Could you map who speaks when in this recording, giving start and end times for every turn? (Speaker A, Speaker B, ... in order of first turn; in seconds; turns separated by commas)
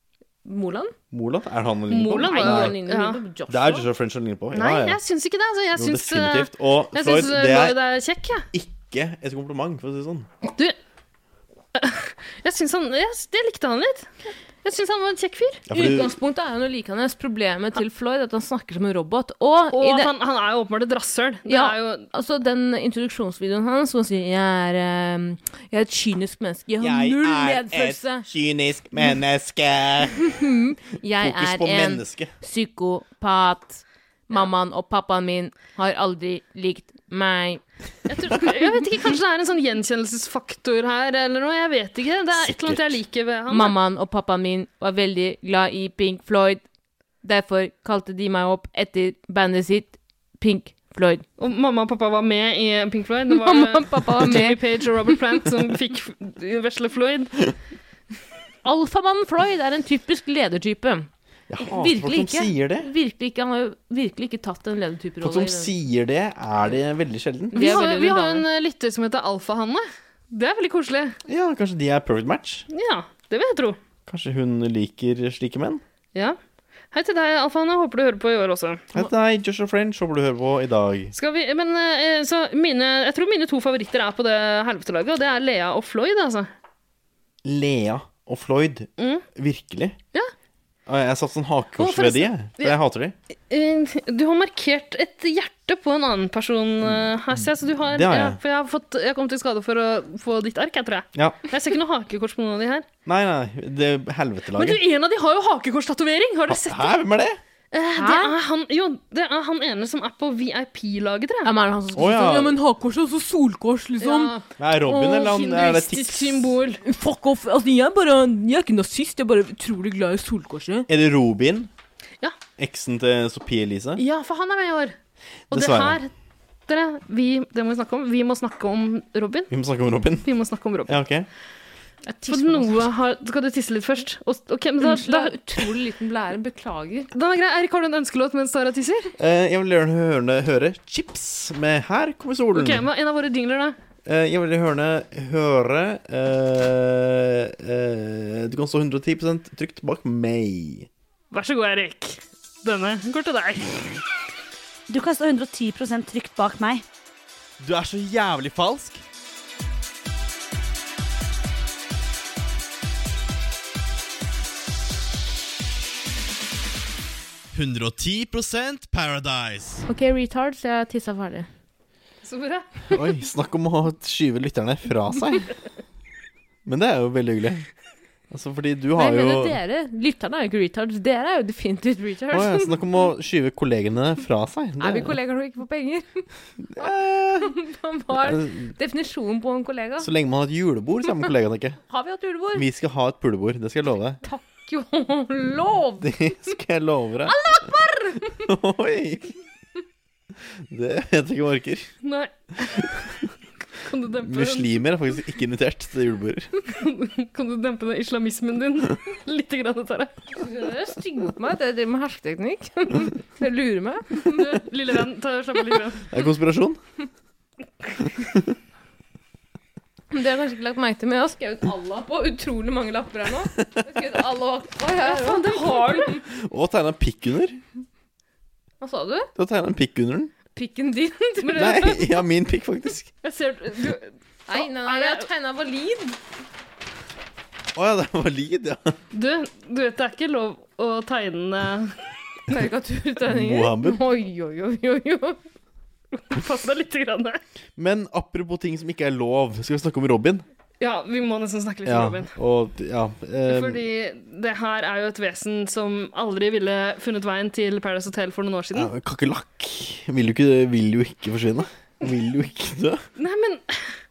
Speaker A: 0.4-0.9, Speaker B: 1.1-2.8, Speaker C: 1.9-3.2, Speaker A: 2.3-3.9, Speaker B: 3.5-5.0, Speaker C: 4.5-8.4, Speaker B: 5.7-7.8, Speaker B: 8.5-10.3, Speaker C: 10.4-10.8, Speaker C: 11.8-14.1, Speaker C: 14.6-15.6, Speaker B: 15.7-16.1, Speaker A: 15.7-20.1, Speaker C: 19.7-22.1, Speaker A: 21.5-28.2, Speaker B: 26.8-30.3, Speaker A: 30.3-37.6, Speaker B: 31.1-32.3, Speaker C: 38.1-43.7, Speaker B: 42.3-42.9, Speaker A: 43.5-46.6, Speaker A: 47.2-51.2, Speaker C: 51.4-57.5, Speaker A: 53.4-54.6, Speaker A: 58.6-61.1, Speaker B: 61.5-62.9, Speaker A: 61.6-65.7, Speaker B: 65.2-67.9, Speaker A: 67.5-68.4, Speaker C: 67.5-71.2, Speaker B: 71.3-72.7, Speaker C: 72.7-73.8, Speaker B: 74.1-75.8, Speaker C: 76.9-78.9, Speaker B: 78.9-81.1, Speaker C: 81.1-86.5, Speaker B: 87.4-90.0, Speaker C: 89.0-89.2, Speaker B: 90.9-93.1, Speaker C: 91.8-92.7, Speaker C: 93.5-102.9, Speaker B: 96.8-98.4, Speaker B: 101.1-101.4, Speaker B: 103.0-104.8, Speaker C: 104.5-106.9, Speaker B: 106.5-107.4, Speaker C: 107.7-111.5, Speaker A: 108.0-108.3, Speaker A: 111.4-114.3, Speaker B: 112.0-112.6, Speaker C: 114.0-116.8, Speaker B: 114.6-116.5, Speaker A: 116.8-120.9, Speaker B: 120.9-121.7, Speaker B: 122.6-124.0, Speaker C: 124.0-125.0, Speaker B: 125.5-126.0, Speaker C: 125.5-126.1, Speaker C: 126.7-129.5, Speaker B: 129.5-130.3, Speaker C: 130.2-131.0, Speaker B: 130.9-131.3, Speaker A: 132.1-132.8, Speaker C: 132.3-135.7, Speaker A: 134.8-137.1, Speaker C: 137.1-139.1, Speaker B: 139.2-142.9, Speaker C: 142.5-143.8, Speaker B: 144.0-150.9, Speaker C: 151.3-153.9, Speaker D: 154.9-156.8, Speaker B: 157.6-159.0, Speaker B: 167.5-169.8, Speaker A: 169.9-171.5, Speaker C: 172.2-172.7, Speaker B: 172.9-175.5, Speaker B: 176.7-177.7, Speaker B: 178.3-179.6, Speaker A: 179.0-182.7, Speaker B: 182.3-185.2, Speaker A: 184.8-186.2, Speaker B: 186.6-187.6, Speaker A: 187.4-190.1, Speaker B: 188.1-188.7, Speaker B: 190.0-191.8, Speaker A: 191.9-192.6, Speaker B: 192.5-194.2, Speaker A: 194.2-196.5, Speaker B: 196.0-197.4, Speaker A: 197.2-198.4, Speaker B: 198.4-199.3, Speaker B: 200.7-201.9, Speaker C: 202.0-203.1, Speaker C: 203.8-204.7, Speaker B: 204.2-206.5, Speaker C: 206.7-210.1, Speaker A: 210.4-214.5, Speaker C: 214.3-216.0, Speaker B: 216.1-216.8, Speaker A: 220.1-226.2, Speaker B: 223.6-223.8, Speaker C: 225.0-226.2, Speaker B: 226.3-227.6, Speaker A: 228.8-229.3, Speaker B: 229.4-230.3, Speaker A: 230.5-232.0, Speaker C: 231.4-231.8, Speaker B: 231.5-233.1, Speaker C: 233.2-235.2, Speaker A: 234.5-236.2, Speaker B: 237.7-238.9, Speaker C: 239.1-242.0, Speaker A: 242.5-245.4, Speaker B: 243.3-244.0, Speaker C: 246.1-247.4, Speaker B: 247.8-250.4, Speaker C: 250.8-252.3, Speaker B: 251.8-253.8, Speaker C: 253.5-258.9, Speaker B: 258.7-263.0, Speaker C: 263.2-263.9